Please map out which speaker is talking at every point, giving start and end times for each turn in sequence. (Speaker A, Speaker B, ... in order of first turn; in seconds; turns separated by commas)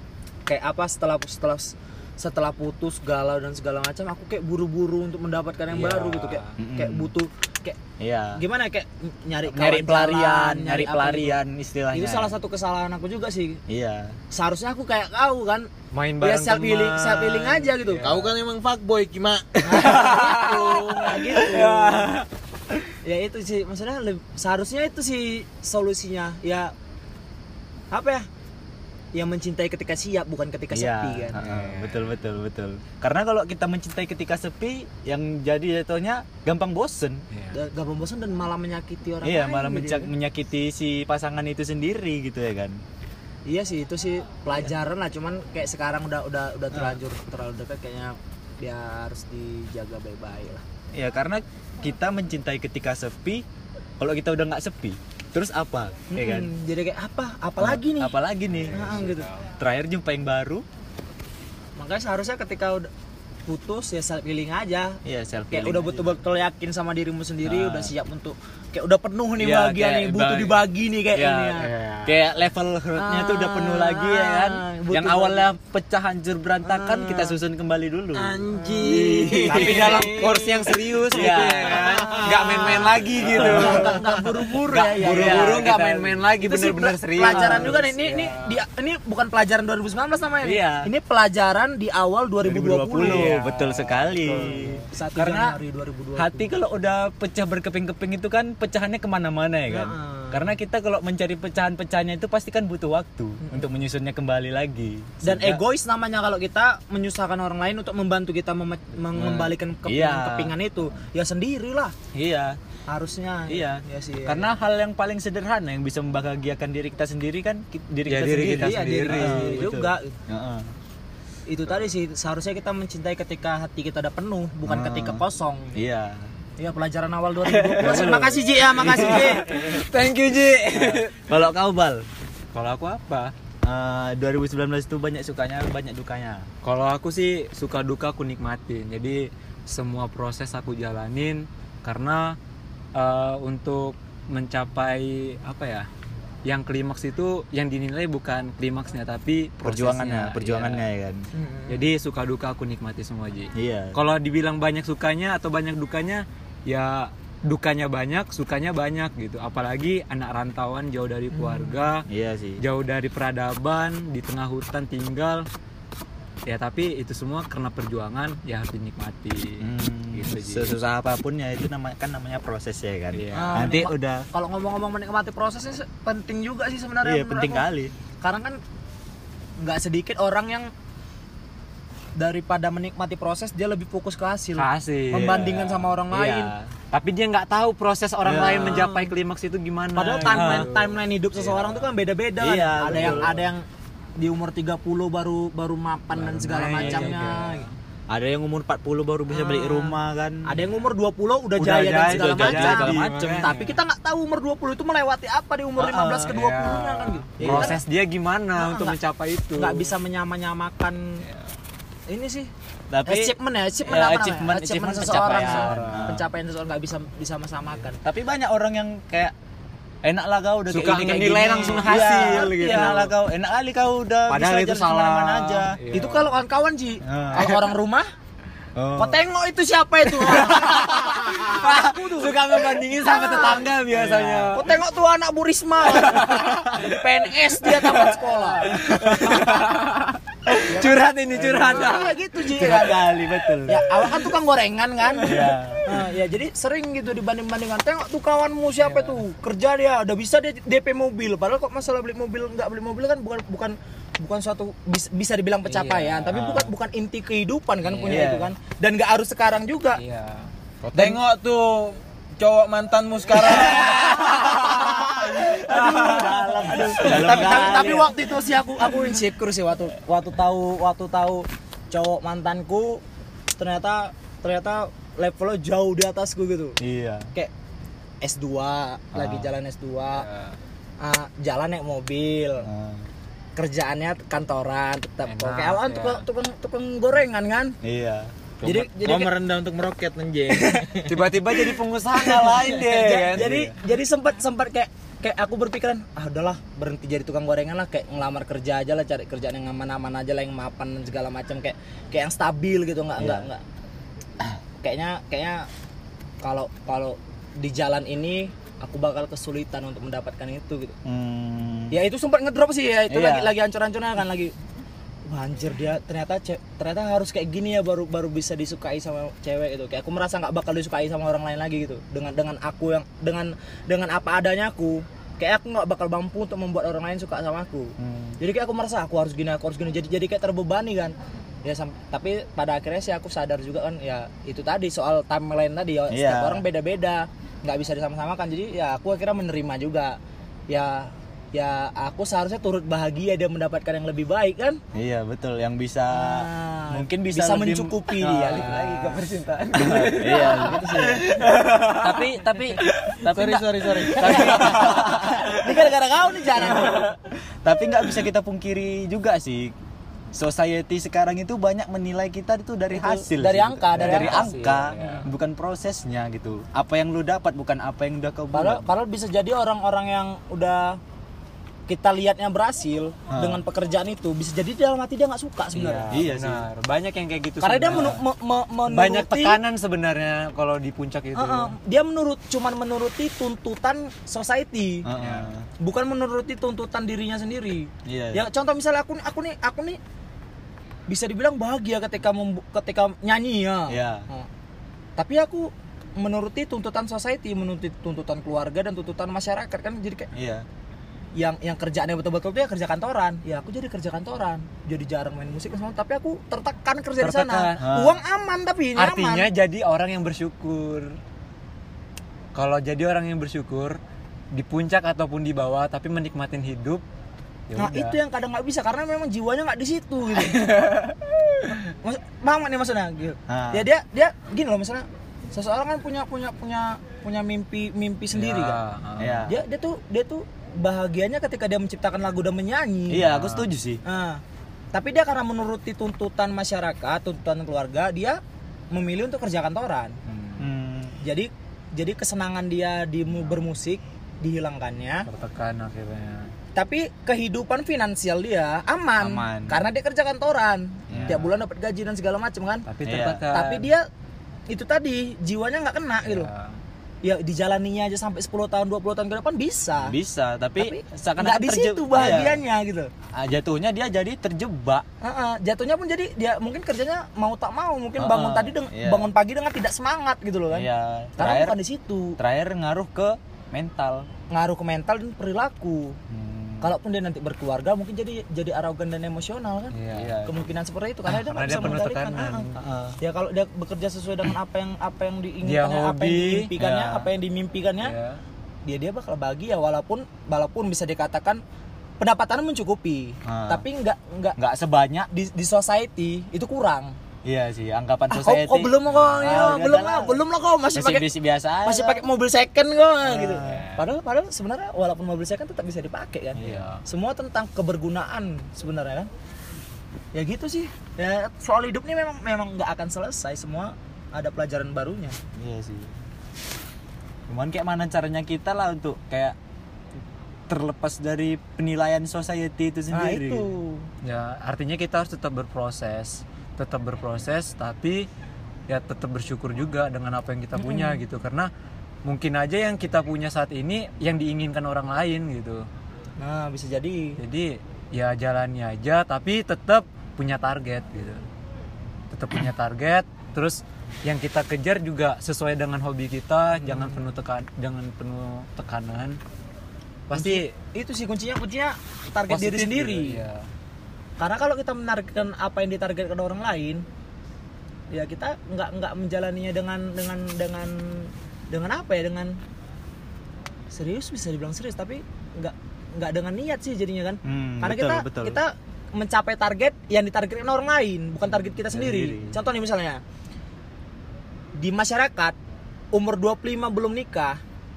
Speaker A: 0.5-7.8, Speaker B: 5.7-6.6, Speaker C: 6.6-7.1, Speaker C: 8.0-8.4, Speaker A: 8.3-11.4, Speaker C: 9.5-12.3, Speaker A: 11.9-13.6, Speaker C: 13.7-14.2, Speaker A: 14.3-18.1, Speaker B: 15.9-18.3, Speaker D: 18.0-20.5, Speaker A: 19.6-22.1, Speaker B: 19.6-22.3, Speaker A: 23.0-26.7, Speaker A: 27.9-28.3, Speaker A: 29.1-31.4, Speaker C: 30.7-37.2, Speaker B: 31.4-32.1, Speaker B: 37.3-37.6, Speaker A: 37.5-40.1, Speaker C: 39.2-42.8, Speaker A: 43.5-50.6, Speaker C: 50.9-53.5, Speaker C: 54.0-56.5, Speaker A: 56.1-58.1, Speaker C: 57.6-60.6, Speaker B: 58.5-59.4, Speaker A: 58.7-59.3, Speaker A: 61.8-62.9, Speaker A: 63.5-65.0, Speaker C: 65.0-66.2, Speaker A: 65.5-71.7, Speaker C: 67.4-67.9, Speaker C: 69.4-78.4, Speaker B: 71.6-72.2, Speaker A: 73.0-75.5, Speaker A: 76.6-77.4, Speaker D: 78.1-80.9, Speaker A: 78.5-80.3, Speaker B: 78.8-84.1, Speaker C: 79.3-80.0, Speaker C: 81.1-86.2, Speaker A: 81.6-93.4, Speaker B: 85.0-88.6, Speaker C: 87.2-87.8, Speaker C: 90.4-90.9, Speaker C: 92.4-95.6, Speaker B: 93.0-94.9, Speaker A: 94.3-96.5, Speaker C: 96.2-105.6, Speaker A: 99.7-100.5, Speaker A: 103.4-103.7, Speaker A: 105.2-111.9, Speaker C: 109.1-110.6, Speaker C: 112.1-112.6, Speaker A: 112.9-114.5, Speaker C: 113.5-120.7, Speaker B: 118.0-119.6, Speaker A: 118.5-120.2, Speaker A: 121.5-125.8, Speaker C: 124.7-125.2, Speaker C: 125.8-126.3, Speaker A: 126.6-129.6, Speaker C: 127.6-129.8, Speaker B: 127.7-128.2, Speaker B: 128.8-131.2, Speaker C: 130.7-132.1, Speaker B: 132.5-133.3, Speaker C: 133.6-136.5, Speaker B: 136.6-142.4, Speaker B: 142.9-145.9, Speaker B: 146.4-150.9, Speaker C: 149.6-151.3, Speaker A: 151.3-151.9, Speaker B: 151.7-162.1, Speaker C: 153.6-154.0, Speaker A: 161.3-161.9, Speaker C: 162.1-162.6, Speaker B: 162.6-165.5, Speaker B: 166.4-170.8, Speaker C: 169.6-174.3, Speaker B: 173.1-173.8, Speaker A: 173.3-177.6, Speaker C: 177.0-177.9, Speaker A: 178.2-178.6, Speaker A: 179.6-180.7, Speaker A: 182.2-186.5, Speaker B: 184.6-185.6, Speaker C: 185.1-186.7, Speaker B: 186.9-191.9, Speaker C: 188.2-188.9, Speaker A: 188.4-189.1, Speaker A: 189.9-193.6, Speaker C: 190.2-190.7, Speaker C: 192.4-193.4, Speaker B: 192.9-193.3, Speaker A: 194.2-197.7, Speaker B: 196.1-197.7, Speaker C: 196.7-197.1, Speaker C: 198.1-200.6, Speaker A: 199.3-207.8, Speaker B: 201.6-203.8, Speaker C: 201.9-203.5, Speaker C: 205.8-206.4, Speaker B: 206.3-209.9, Speaker C: 207.4-207.8, Speaker A: 208.6-209.0, Speaker A: 209.6-211.2, Speaker A: 212.1-212.5, Speaker C: 212.9-216.2, Speaker A: 213.1-218.0, Speaker B: 215.1-216.2, Speaker C: 218.0-219.3, Speaker C: 220.0-225.8, Speaker B: 220.7-223.1, Speaker A: 220.8-223.1, Speaker B: 224.3-226.4, Speaker A: 225.9-228.1, Speaker C: 227.0-227.6, Speaker C: 228.8-229.2, Speaker A: 228.9-233.7, Speaker B: 230.2-234.6, Speaker C: 233.9-234.6, Speaker A: 234.5-239.4, Speaker B: 235.9-242.2, Speaker C: 238.7-239.4, Speaker A: 240.7-260.0, Speaker C: 241.3-241.9, Speaker C: 242.5-244.1, Speaker C: 245.2-245.9, Speaker B: 248.8-249.2, Speaker B: 255.7-256.4, Speaker C: 256.3-256.7, Speaker B: 257.8-258.3, Speaker C: 258.1-258.5, Speaker B: 259.9-260.5, Speaker D: 260.9-264.7, Speaker A: 263.3-273.0, Speaker B: 264.4-267.8, Speaker C: 265.4-268.1, Speaker A: 273.6-276.8, Speaker C: 276.8-277.3, Speaker A: 278.2-280.3, Speaker C: 279.1-279.5, Speaker B: 280.1-280.6, Speaker A: 281.0-282.7, Speaker C: 282.6-283.1, Speaker A: 283.6-287.8, Speaker B: 285.2-286.2, Speaker C: 287.8-288.3, Speaker D: 288.6-291.2, Speaker A: 288.6-289.3, Speaker A: 290.5-291.0, Speaker B: 291.1-293.5, Speaker A: 292.1-303.6, Speaker C: 292.4-293.8, Speaker C: 303.2-303.5, Speaker A: 304.8-305.7, Speaker A: 306.4-311.0, Speaker C: 311.1-312.0, Speaker A: 311.9-314.5, Speaker C: 313.1-313.5, Speaker A: 315.3-344.8, Speaker C: 328.0-328.4, Speaker C: 336.1-336.6, Speaker C: 344.9-349.1, Speaker A: 346.1-349.3, Speaker B: 348.3-355.2, Speaker C: 349.7-351.2, Speaker A: 349.9-351.4, Speaker D: 351.9-354.9, Speaker A: 353.3-357.1, Speaker C: 354.1-355.6, Speaker C: 356.6-357.1, Speaker C: 357.6-359.7, Speaker C: 360.3-368.9, Speaker A: 362.9-365.3, Speaker B: 363.9-365.3, Speaker A: 368.5-371.0, Speaker A: 371.9-376.1, Speaker C: 373.3-373.6, Speaker B: 375.7-378.2, Speaker C: 376.1-376.7, Speaker A: 377.6-379.6, Speaker C: 377.9-378.2, Speaker B: 378.9-381.8, Speaker A: 381.4-385.1, Speaker C: 385.1-385.7, Speaker B: 385.2-385.4, Speaker A: 385.8-390.0, Speaker C: 388.1-388.5, Speaker A: 391.1-394.5, Speaker C: 393.9-394.3, Speaker A: 395.2-400.3, Speaker C: 400.3-400.6, Speaker A: 401.4-409.5, Speaker B: 407.2-407.8, Speaker C: 407.8-408.2, Speaker B: 408.9-411.2, Speaker B: 412.5-414.0, Speaker B: 414.5-417.0, Speaker B: 417.7-418.2, Speaker A: 417.8-420.8, Speaker B: 420.4-421.1, Speaker A: 421.8-428.8, Speaker C: 423.5-423.9, Speaker B: 428.3-429.5, Speaker C: 429.2-429.6, Speaker A: 429.5-433.3, Speaker C: 433.1-434.0, Speaker B: 433.2-433.7, Speaker A: 434.0-434.4, Speaker A: 434.9-438.4, Speaker A: 438.9-440.2, Speaker B: 440.3-440.6, Speaker C: 440.6-441.2, Speaker A: 441.2-445.3, Speaker B: 445.3-446.5, Speaker A: 446.8-452.9, Speaker C: 449.2-449.8, Speaker C: 451.1-451.4, Speaker B: 451.2-451.5, Speaker B: 452.9-453.9, Speaker C: 453.1-453.5, Speaker A: 453.5-454.1, Speaker A: 454.7-456.5, Speaker B: 456.2-456.8, Speaker A: 457.2-460.1, Speaker C: 460.0-462.6, Speaker A: 460.8-463.1, Speaker C: 463.3-465.1, Speaker A: 465.2-472.4, Speaker C: 468.2-469.3, Speaker C: 470.7-471.8, Speaker C: 472.4-474.3, Speaker A: 474.5-476.2, Speaker C: 476.3-476.9, Speaker A: 476.8-482.7, Speaker B: 479.9-480.4, Speaker C: 480.1-480.6, Speaker B: 481.3-482.8, Speaker C: 481.6-482.0, Speaker C: 482.8-483.2, Speaker A: 483.2-488.1, Speaker B: 485.6-486.7, Speaker C: 486.8-487.3, Speaker B: 488.0-488.4, Speaker A: 488.9-491.6, Speaker A: 492.2-494.6, Speaker C: 493.4-493.9, Speaker C: 494.6-495.3, Speaker A: 495.3-497.2, Speaker C: 497.4-500.4, Speaker A: 498.3-501.3, Speaker B: 499.1-499.5, Speaker C: 500.9-502.2, Speaker A: 501.8-509.3, Speaker C: 503.2-503.9, Speaker B: 503.6-503.9, Speaker C: 506.6-507.0, Speaker B: 506.6-507.0, Speaker A: 510.3-515.4, Speaker C: 515.5-516.1, Speaker C: 517.5-519.6, Speaker C: 520.7-523.7, Speaker A: 523.1-524.1, Speaker B: 524.2-528.3, Speaker B: 528.9-531.7, Speaker A: 530.8-531.2, Speaker B: 532.2-535.9, Speaker A: 536.4-537.4, Speaker B: 537.4-541.4, Speaker B: 542.3-549.4, Speaker A: 546.9-547.2, Speaker B: 550.3-550.7, Speaker A: 550.3-553.4, Speaker B: 552.5-553.7, Speaker A: 554.4-557.0, Speaker A: 558.1-562.6, Speaker A: 563.9-573.2, Speaker C: 567.4-568.6, Speaker C: 571.9-572.6, Speaker A: 574.8-575.6, Speaker A: 576.1-577.6